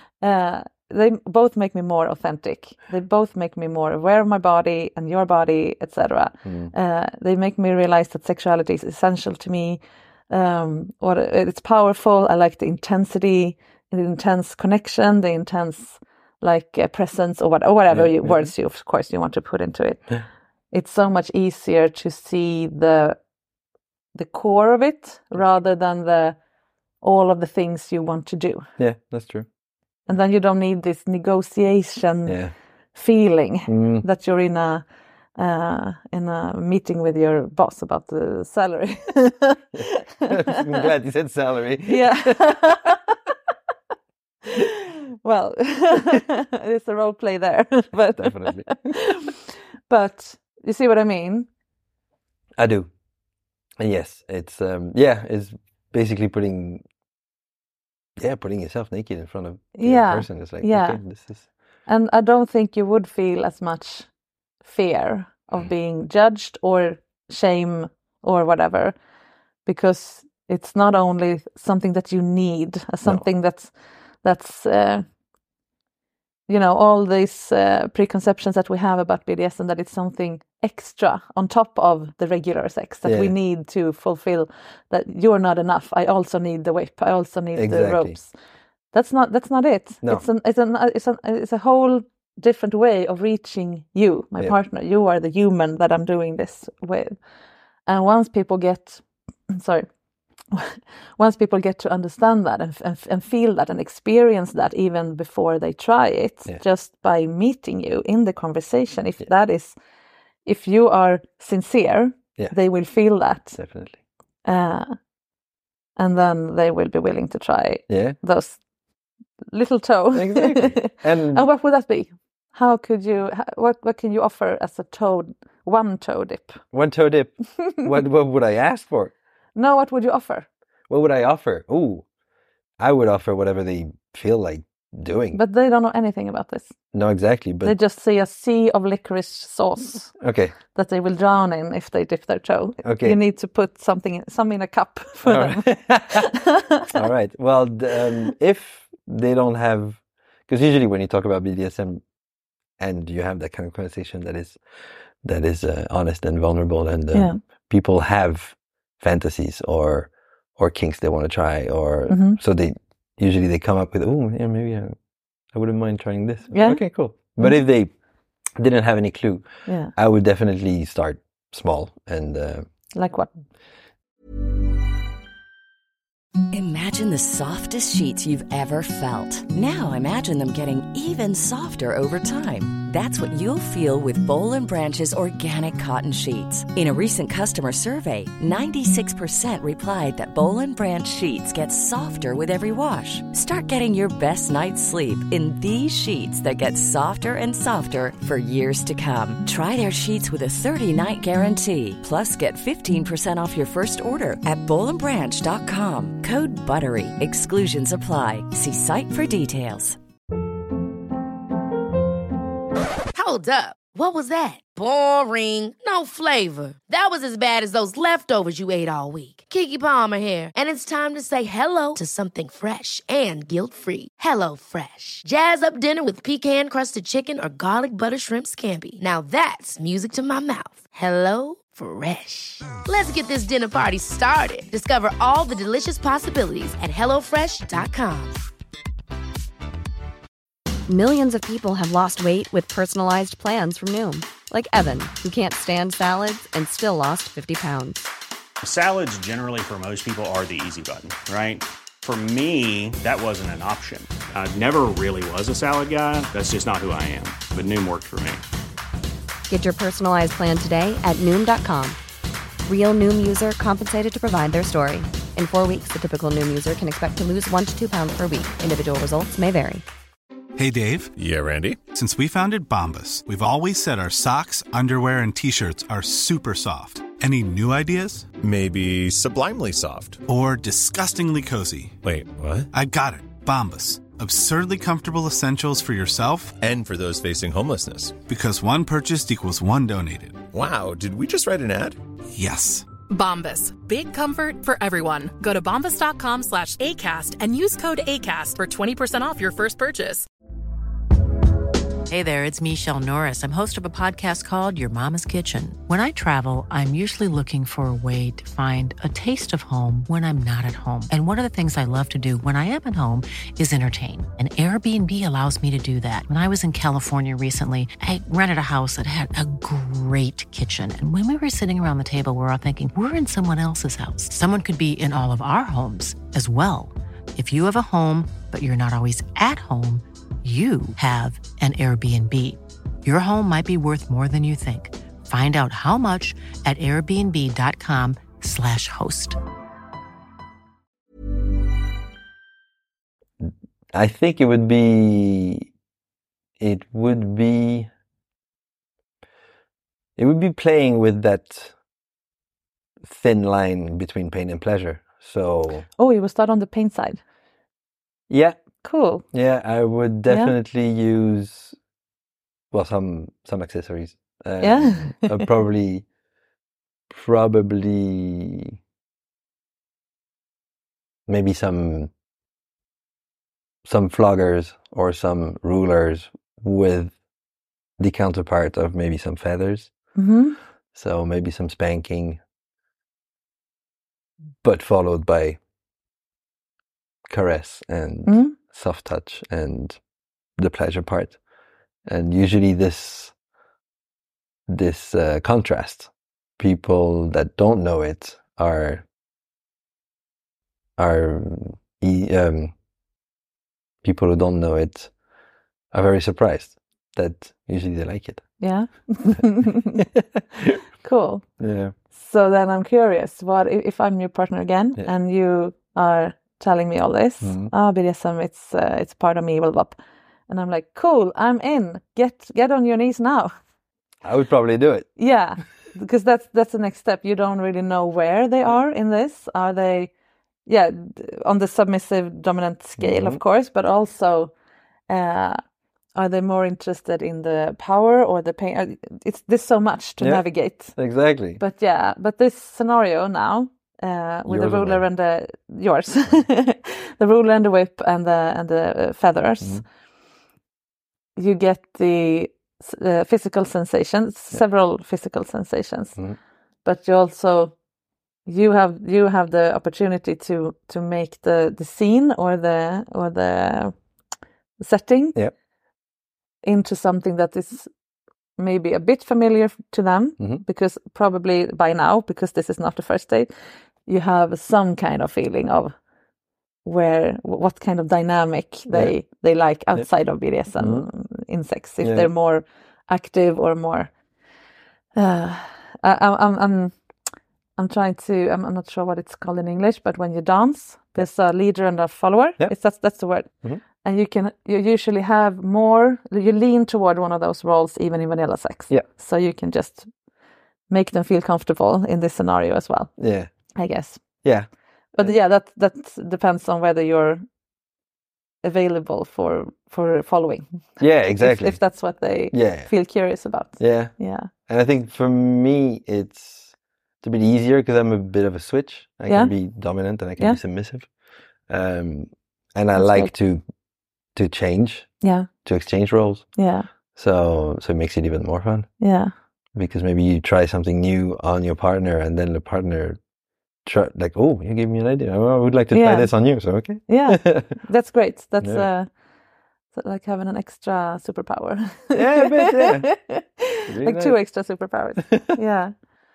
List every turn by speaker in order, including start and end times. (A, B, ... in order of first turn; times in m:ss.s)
0:00.2-0:20.1 A
0:06.4-0:06.7 B
0:17.9-0:18.5 B
0:20.7-0:23.2 A
0:24.2-0:26.4 A
0:27.0-0:28.7 A
0:28.8-0:29.5 B
0:30.1-0:32.4 A
0:32.3-0:32.5 B
0:32.9-0:40.3 A
0:33.7-0:34.1 B
0:39.7-0:42.9 B
0:41.9-0:43.2 A
0:44.6-0:49.4 A
0:48.1-0:48.8 B
0:49.9-0:51.5 A
0:52.6-0:52.9 B
0:53.8-0:56.8 B
0:58.2-1:01.5 B
0:59.8-1:01.0 A
1:01.9-1:04.1 A
1:04.6-1:09.0 A
1:09.6-1:13.7 A
1:14.2-1:15.0 A
1:16.5-1:28.3 A
1:23.0-1:23.3 B
1:27.6-1:28.2 B
1:28.9-1:37.2 A
1:37.9-1:39.9 A
1:40.5-1:49.8 A
1:50.4-1:53.6 A
1:53.6-1:54.0 B
1:54.4-1:55.0 A
1:56.0-1:58.6 A
1:57.9-1:58.2 B
1:59.5-2:06.6 A
2:00.1-2:01.5 B
2:06.7-2:09.1 B
2:09.6-2:10.5 A
2:10.9-2:12.1 B
2:12.8-2:15.4 B
2:15.3-2:16.7 A
2:16.9-2:17.8 B
2:17.6-2:20.2 A
2:20.2-2:20.6 B
2:20.8-2:26.9 A
2:22.8-2:23.2 B
2:25.2-2:26.3 B
2:26.9-2:32.0 B
2:32.8-2:34.6 B
2:35.2-2:45.0 B
2:37.1-2:37.4 A
2:42.1-2:42.4 A
2:45.5-2:47.9 B
2:46.5-2:47.6 A
2:48.6-2:52.7 B
2:49.7-2:49.9 A
2:52.9-2:53.4 A
2:56.5-3:30.0 C
3:33.2-3:58.4 D
4:00.9-4:08.1 E
4:08.6-4:18.4 F
4:19.5-4:22.0 E
4:22.7-4:29.8 E
4:30.6-4:31.1 G
4:31.2-4:31.8 H
4:31.9-4:38.3 G
4:38.4-4:40.2 H
4:40.3-4:42.0 G
4:42.0-4:42.7 H
4:42.7-4:46.6 G
4:46.6-4:48.2 H
4:48.3-4:50.5 G
4:50.5-4:52.0 H
4:52.3-4:52.9 G
4:53.1-5:00.3 I
5:02.1-5:39.4 J
5:43.4-5:45.7 B
5:46.6-5:47.9 B
5:50.2-5:51.8 B
5:53.0-5:55.9 B
5:56.0-5:57.2 A
5:58.3-5:58.6 B
5:58.8-5:59.2 A
5:59.3-6:01.8 B
6:00.3-6:00.5 A
6:02.7-6:06.1 B
6:04.6-6:05.5 A
6:07.1-6:08.8 B
6:11.3-6:12.1 B
6:13.8-6:17.2 B
6:18.0-6:19.9 B
6:20.2-6:20.6 A
6:20.9-6:22.4 B
6:24.6-6:25.6 B
6:27.3-6:30.0 B
6:28.3-6:28.6 A
6:30.6-6:31.4 B
6:32.1-6:33.3 B
6:34.7-6:39.1 B
6:41.0-6:42.8 B
6:44.0-6:45.2 B
6:45.9-6:48.5 B
6:48.6-6:50.0 A
6:50.0-6:50.8 B
6:51.0-6:51.4 A
6:51.6-6:52.0 B
6:52.1-7:00.0 A
6:57.4-6:57.7 B
7:00.5-7:03.5 A
7:04.2-7:05.1 B
7:05.2-7:10.1 A
7:10.7-7:14.5 A
7:13.0-7:13.4 B
7:15.1-7:15.6 A
7:16.2-7:21.0 A
7:20.2-7:21.6 B
7:21.6-7:29.8 A
7:24.5-7:25.0 B
7:31.4-7:36.2 A
7:36.8-7:37.8 A
7:38.5-7:44.0 A
7:44.8-7:45.4 A
7:46.6-7:47.9 A
7:48.6-7:53.5 A
7:54.1-7:55.9 A
7:56.8-8:04.1 A
8:00.8-8:01.1 B
8:02.0-8:02.3 B
8:05.2-8:07.0 A
8:07.8-8:13.5 A
8:14.0-8:20.1 A
8:20.9-8:23.1 A
8:23.2-8:23.5 B
8:23.8-8:24.4 A
8:24.4-8:25.4 B
8:25.1-8:27.4 A
8:28.6-8:34.5 A
8:31.0-8:31.8 B
8:32.5-8:32.9 B
8:33.8-8:34.2 B
8:34.7-8:41.1 B
8:39.3-8:39.6 A
8:41.7-8:43.6 B
8:43.0-8:43.3 A
8:44.4-8:46.6 B
8:45.2-8:45.5 A
8:46.6-8:46.9 A
8:47.1-8:48.9 B
8:49.0-8:49.3 A
8:49.8-8:53.2 B
8:53.8-8:57.8 B
8:55.9-8:56.3 A
8:57.1-8:59.1 A
8:58.6-8:58.9 B
8:59.9-9:05.9 A
9:02.1-9:03.1 B
9:03.9-9:04.4 B
9:05.2-9:05.5 B